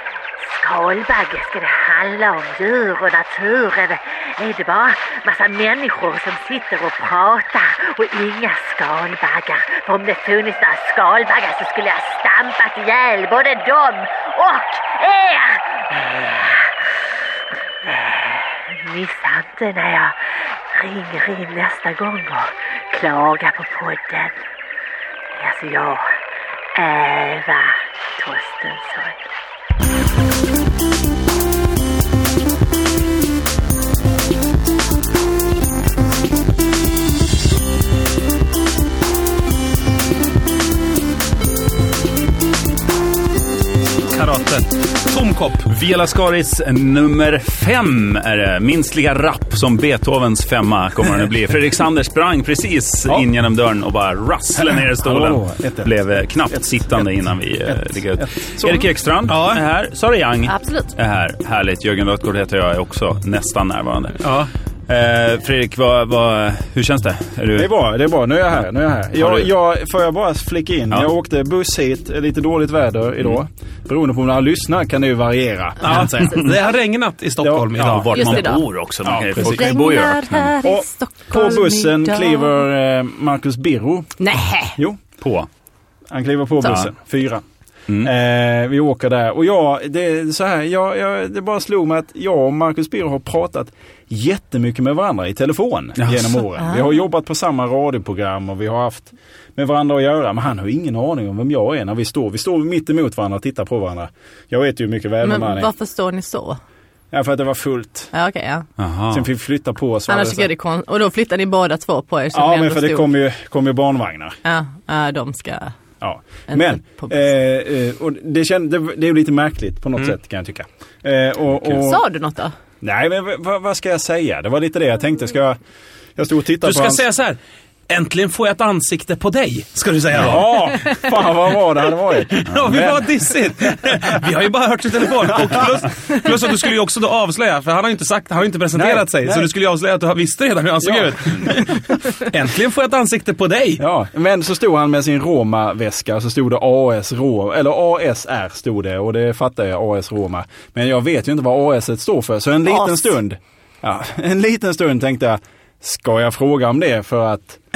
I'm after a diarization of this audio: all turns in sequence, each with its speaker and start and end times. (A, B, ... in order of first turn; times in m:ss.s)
0:00.4-0:17.2 A
0:17.8-0:24.4 A
0:25.3-0:26.2 A
0:26.8-0:29.2 A
0:44.1-0:45.7 B
0:45.7-1:04.3 C
0:54.6-0:55.9 D
0:57.7-0:58.9 D
0:59.3-0:59.6 B
1:00.5-1:00.9 E
1:04.2-1:04.5 B
1:04.9-1:07.7 C
1:07.6-1:16.5 D
1:09.2-1:09.5 C
1:15.8-1:18.5 B
1:17.4-1:17.7 D
1:17.7-1:20.5 C
1:18.1-1:18.7 E
1:19.0-1:19.7 D
1:19.3-1:22.6 E
1:20.6-1:24.2 D
1:24.2-1:24.8 E
1:24.8-1:25.0 D
1:25.2-1:25.5 C
1:26.1-1:27.4 D
1:28.0-1:45.7 D
1:36.0-1:36.4 C
1:36.6-1:37.0 E
1:45.2-1:46.6 E
1:47.1-1:48.1 D
1:48.1-1:48.7 E
1:48.8-1:49.3 C
1:49.1-1:50.5 D
1:50.1-1:53.1 E
1:52.3-1:54.4 D
1:54.4-1:55.8 E
1:56.0-2:02.0 D
1:56.5-1:57.2 E
2:01.7-2:02.5 E
2:02.8-2:05.6 D
2:06.2-2:07.0 D
2:06.6-2:10.9 B
2:10.1-2:13.1 D
2:12.4-2:23.8 B
2:18.8-2:19.5 D
2:20.8-2:21.6 D
2:23.8-2:37.6 D
2:32.7-2:33.1 E